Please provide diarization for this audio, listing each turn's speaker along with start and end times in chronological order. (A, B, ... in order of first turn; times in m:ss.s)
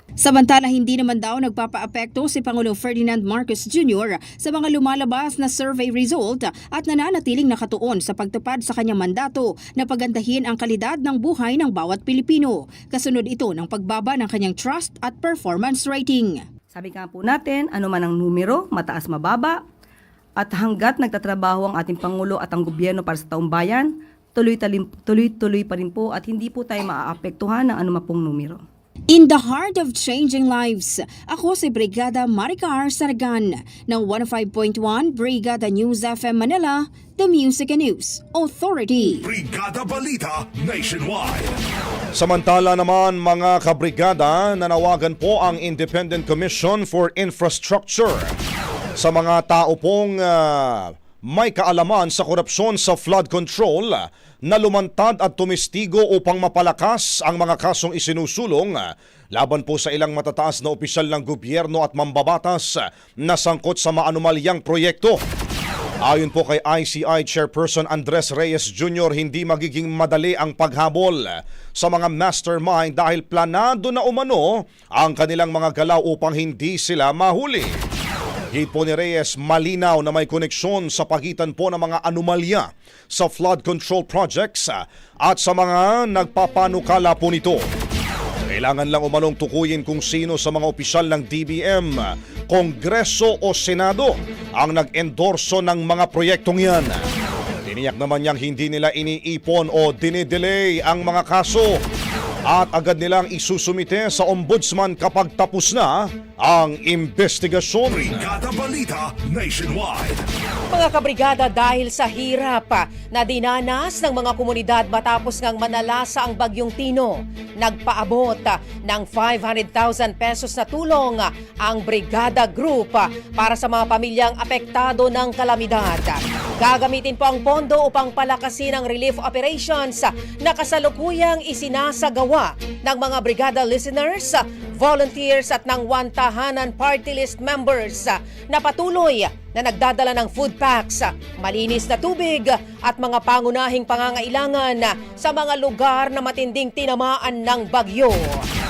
0:00.2-0:16.5 A
0:16.7-0:19.6 B
0:20.4-0:28.6 B
0:29.1-0:39.3 A
0:39.2-0:41.6 C
0:42.2-0:48.4 D
0:49.0-0:58.8 D
0:59.4-1:05.2 D
1:06.0-1:17.8 D
1:18.5-1:27.6 D
1:28.5-1:37.0 D
1:37.6-1:41.8 D
1:42.5-1:48.4 D
1:47.9-1:50.2 C
1:50.7-2:28.4 E